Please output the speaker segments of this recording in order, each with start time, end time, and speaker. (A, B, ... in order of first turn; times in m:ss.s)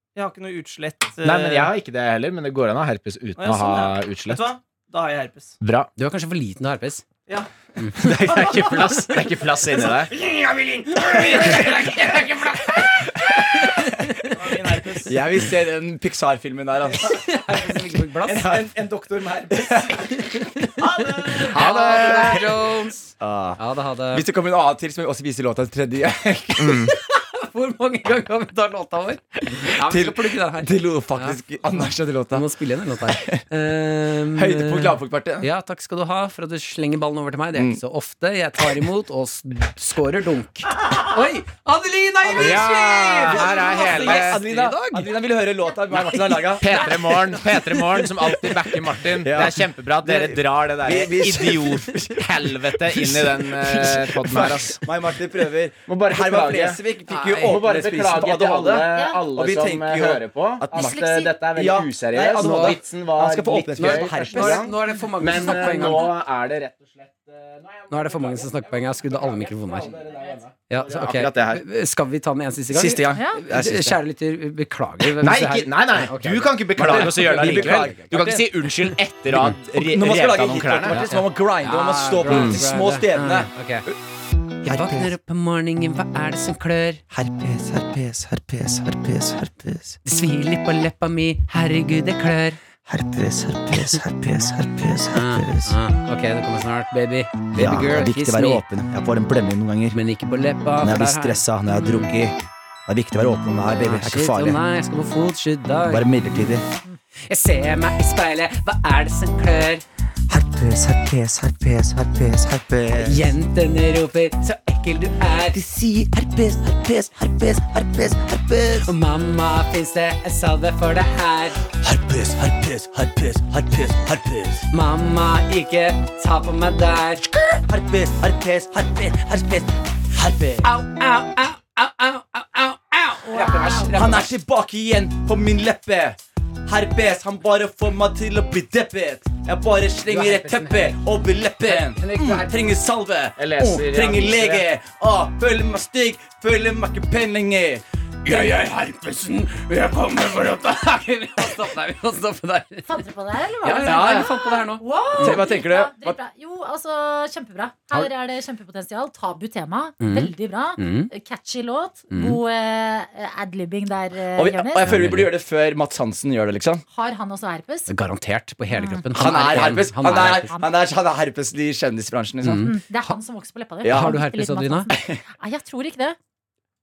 0:00.2-0:01.7 A
0:01.2-0:04.5 B
0:03.4-0:05.6 A
0:05.6-0:05.9 B
0:06.0-0:07.0 C
0:07.8-0:09.0 C
0:08.0-0:10.1 B
0:09.9-0:11.5 A
0:11.3-0:14.3 C
0:11.3-0:14.1 D
0:14.3-0:15.1 A
0:15.1-0:17.2 D
0:16.9-0:18.6 C
0:18.3-0:20.2 D
0:20.1-0:24.2 C
0:20.8-0:21.4 A
0:21.5-0:22.4 D
0:21.5-0:22.4 B
0:23.2-0:23.6 D
0:24.1-0:26.9 D
0:26.6-0:26.9 B
0:26.8-0:31.8 C
0:29.5-0:32.5 D
0:32.3-0:45.1 C
0:33.1-0:33.4 D
0:34.3-0:35.5 D
0:42.2-0:46.7 D
0:42.3-0:44.4 B
0:45.9-0:48.7 C
0:46.6-0:54.8 B
0:49.2-1:04.7 D
0:55.9-1:11.6 B
0:58.9-0:59.2 E
1:00.7-1:01.3 E
1:02.4-1:02.8 C
1:03.8-1:06.2 C
1:07.9-1:09.9 C
1:10.7-1:18.1 C
1:12.7-1:14.0 D
1:15.2-1:21.0 B
1:16.8-1:18.5 D
1:19.3-1:23.9 D
1:20.9-1:23.8 C
1:22.3-1:22.6 B
1:24.6-1:25.1 D
1:24.6-1:27.0 C
1:27.1-1:30.0 D
1:30.1-1:32.6 C
1:32.9-1:35.8 D
1:35.1-1:38.6 C
1:37.6-1:40.0 D
1:39.9-1:41.4 C
1:40.8-1:42.4 D
1:42.9-1:44.6 D
1:43.7-1:46.1 C
1:45.9-1:46.6 D
1:47.3-1:49.8 C
1:50.3-1:53.2 D
1:53.0-1:55.6 C
1:55.5-1:58.9 D
1:58.8-2:01.6 C
2:01.7-2:04.7 D
2:04.7-2:07.2 C
2:07.3-2:10.7 D
2:10.6-2:14.3 C
2:13.3-2:13.9 E
2:13.9-2:27.8 D
2:20.1-2:21.0 C
2:21.6-2:22.7 C
2:23.4-2:24.7 B
2:28.2-2:32.9 C
2:32.9-2:44.9 E
2:33.6-2:35.4 C
2:33.8-2:34.3 D
2:35.1-2:36.2 D
2:40.0-2:41.1 C
2:42.1-2:42.4 C
2:44.4-2:46.8 D
2:44.8-2:45.3 C
2:46.9-2:47.9 E
2:47.9-2:50.5 C
2:48.7-2:50.7 E
2:49.1-2:52.7 D
2:52.4-2:53.1 C
2:52.5-2:56.2 E
2:53.8-2:54.2 D
2:53.8-2:54.9 C
2:54.9-2:55.2 D